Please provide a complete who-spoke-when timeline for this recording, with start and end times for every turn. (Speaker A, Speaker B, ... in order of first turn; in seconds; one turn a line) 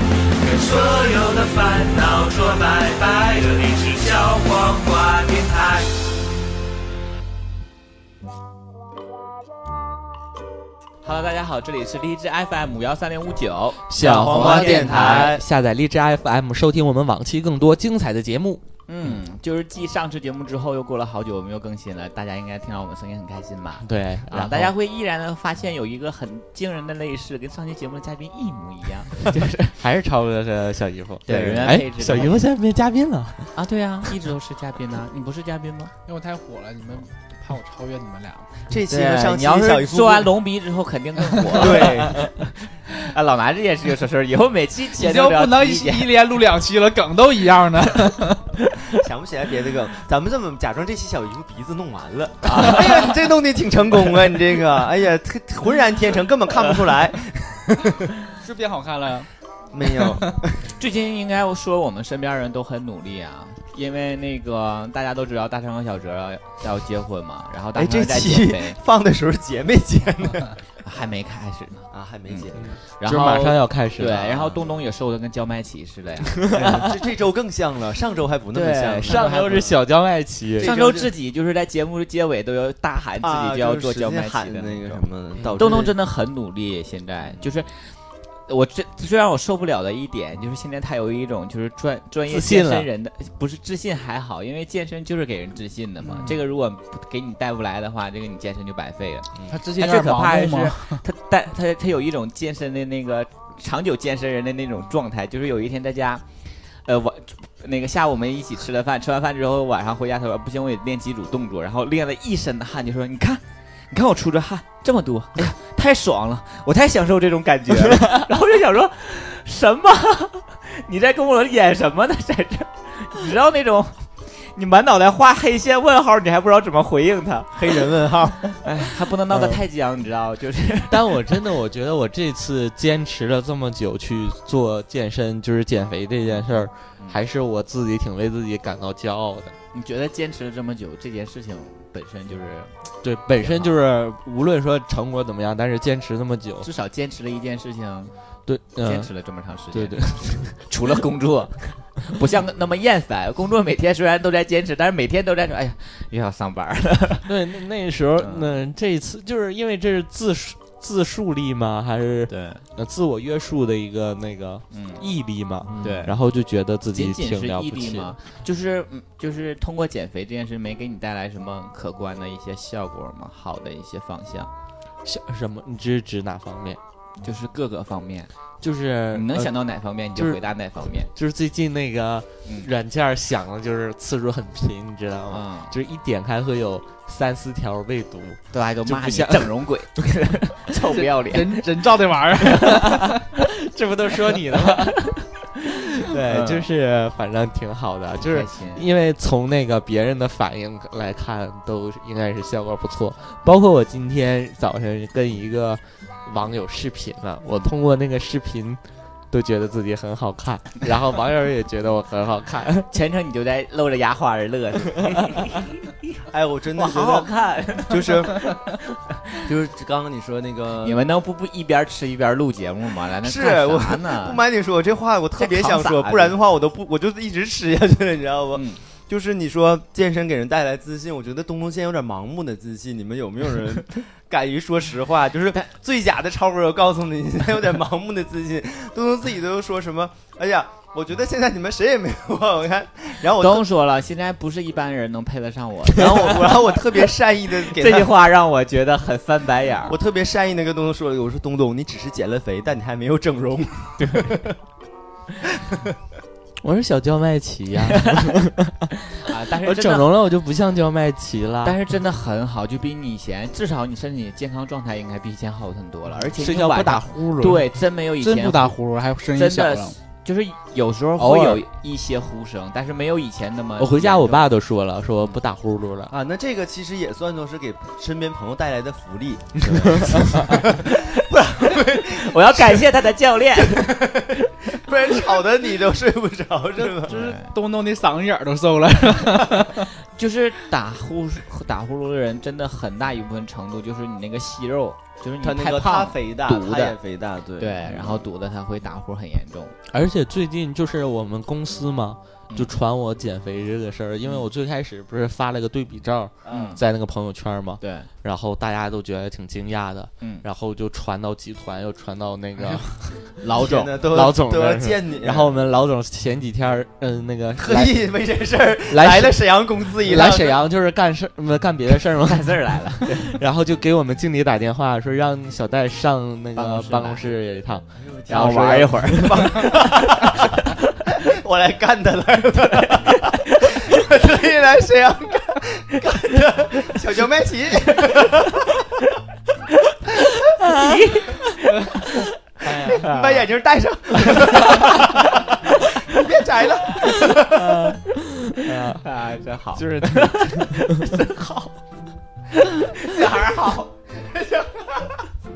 Speaker A: 0.3-5.9
Speaker B: 11.0-15.4
Speaker C: 13.9-19.2
Speaker D: 14.0-15.4
Speaker B: 18.9-29.8
Speaker C: 23.8-24.7
Speaker C: 29.8-33.5
Speaker B: 31.2-32.4
Speaker B: 33.5-35.9
Speaker E: 36.0-38.5
Speaker D: 38.7-40.3
Speaker B: 38.9-46.1
Speaker D: 41.5-42.2
Speaker E: 45.0-48.4
Speaker D: 48.9-58.1
Speaker B: 52.4-53.2
Speaker E: 58.4-59.3
Speaker D: 59.7-60.7
Speaker B: 60.8-68.8
Speaker D: 67.8-70.6
Speaker B: 70.8-76.5
Speaker D: 71.9-72.8
Speaker C: 72.5-74.7
Speaker C: 76.3-76.8
Speaker D: 76.5-79.7
Speaker B: 78.5-79.7
Speaker C: 79.0-80.7
Speaker D: 80.6-81.1
Speaker B: 80.6-87.9
Speaker D: 83.2-85.9
Speaker B: 88.5-106.2
Speaker C: 92.3-92.9
Speaker E: 99.5-101.0
Speaker B: 106.8-127.8
Speaker C: 117.8-118.2
Speaker D: 127.5-128.5
Speaker B: 128.6-131.2
Speaker C: 129.3-129.6
Speaker C: 130.9-139.5
Speaker B: 139.7-142.8
Speaker C: 143.0-146.7
Speaker B: 143.4-143.8
Speaker B: 146.6-148.1
Speaker C: 148.4-149.1
Speaker B: 148.8-157.3
Speaker C: 149.7-150.6
Speaker C: 157.2-168.2
Speaker B: 158.2-158.5
Speaker B: 162.3-162.6
Speaker B: 164.7-165.0
Speaker D: 165.7-166.0
Speaker B: 165.8-166.2
Speaker B: 166.9-174.5
Speaker C: 175.0-176.8
Speaker B: 177.2-178.3
Speaker C: 178.6-179.5
Speaker B: 179.1-181.1
Speaker C: 180.1-180.4
Speaker C: 181.1-189.5
Speaker B: 185.3-185.7
Speaker B: 188.5-191.6
Speaker E: 190.9-193.2
Speaker C: 192.8-195.1
Speaker B: 194.5-195.1
Speaker C: 196.0-212.9
Speaker B: 196.1-196.7
Speaker B: 198.2-198.9
Speaker B: 212.9-215.8
Speaker D: 216.3-218.6
Speaker B: 216.7-218.6
Speaker D: 219.4-221.0
Speaker B: 220.8-224.4
Speaker D: 223.2-243.7
Speaker B: 225.4-226.3
Speaker B: 228.5-228.8
Speaker B: 243.3-246.8
Speaker D: 245.9-248.1
Speaker B: 247.7-250.0
Speaker D: 249.9-254.6
Speaker B: 254.0-254.4
Speaker D: 255.6-255.8
Speaker C: 256.6-258.9
Speaker B: 257.9-258.3
Speaker B: 259.2-260.1
Speaker C: 259.6-261.8
Speaker B: 261.6-268.8
Speaker C: 266.4-267.6
Speaker E: 268.2-269.9
Speaker B: 269.3-274.4
Speaker C: 271.2-271.6
Speaker C: 273.8-276.1
Speaker D: 276.1-282.9
Speaker C: 279.7-280.6
Speaker B: 282.0-284.0
Speaker D: 283.6-287.1
Speaker E: 286.8-289.9
Speaker B: 287.1-287.5
Speaker B: 290.1-296.9
Speaker D: 295.4-298.3
Speaker B: 297.6-299.7
Speaker C: 299.9-312.9
Speaker D: 306.4-306.8
Speaker B: 306.5-306.8
Speaker B: 307.8-308.1
Speaker B: 310.2-310.4
Speaker B: 312.6-313.9
Speaker D: 313.5-315.5
Speaker C: 313.5-318.1
Speaker D: 317.6-320.6
Speaker C: 318.9-319.4
Speaker C: 319.9-329.6
Speaker B: 322.2-323.4
Speaker B: 326.5-327.3
Speaker D: 328.0-338.6
Speaker B: 328.3-330.3
Speaker B: 332.7-333.4
Speaker C: 340.6-341.3
Speaker B: 340.6-342.3
Speaker C: 342.6-343.1
Speaker D: 342.8-347.9
Speaker B: 342.9-343.4
Speaker B: 344.2-345.0
Speaker C: 347.4-349.0
Speaker B: 348.9-351.7
Speaker C: 349.7-351.1
Speaker B: 352.6-353.9
Speaker D: 353.1-353.5
Speaker D: 354.2-355.2